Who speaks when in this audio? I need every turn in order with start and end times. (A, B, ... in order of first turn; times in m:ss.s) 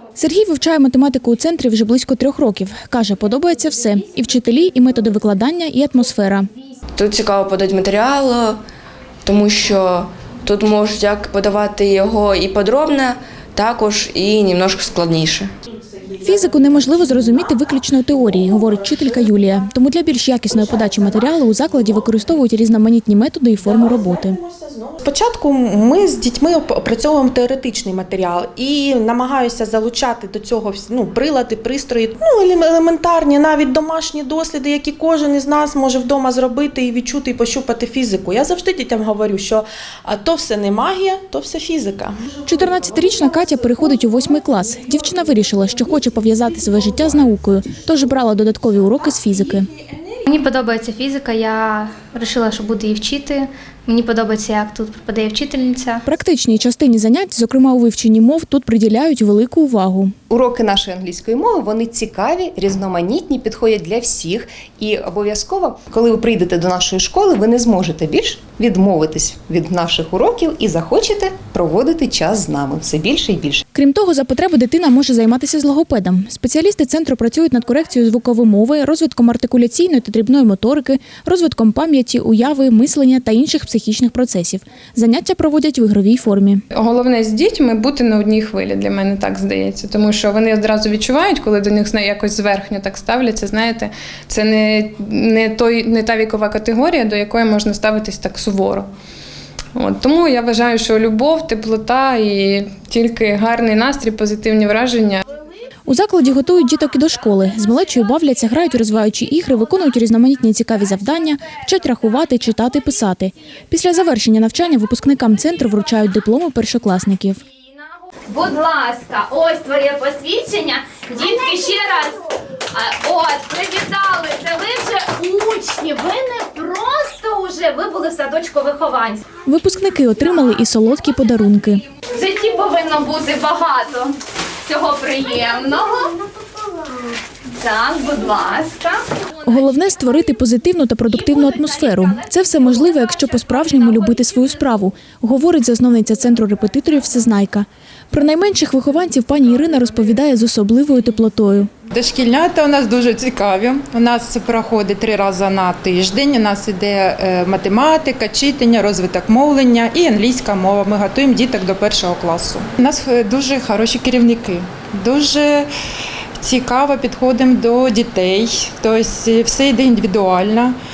0:00.2-0:06.5 A
0:07.0-0:08.6 B
0:09.2-0:15.5 B
0:16.2-0:24.4 A
0:24.8-0:42.1 C
0:42.4-0:49.7 A
0:50.2-0:56.0 D
0:56.0-1:00.1 A
1:00.3-1:13.6 E
1:13.7-1:26.6 A
1:26.7-1:38.9 F
1:39.7-1:45.2 F
1:45.9-1:57.4 A
1:58.3-2:09.2 G
2:09.4-2:11.8 A
2:12.1-2:16.2 G
2:17.5-2:19.0 G
2:19.4-2:31.7 A
2:21.3-2:24.0 G
2:31.9-2:45.6 H
2:46.4-2:50.7 H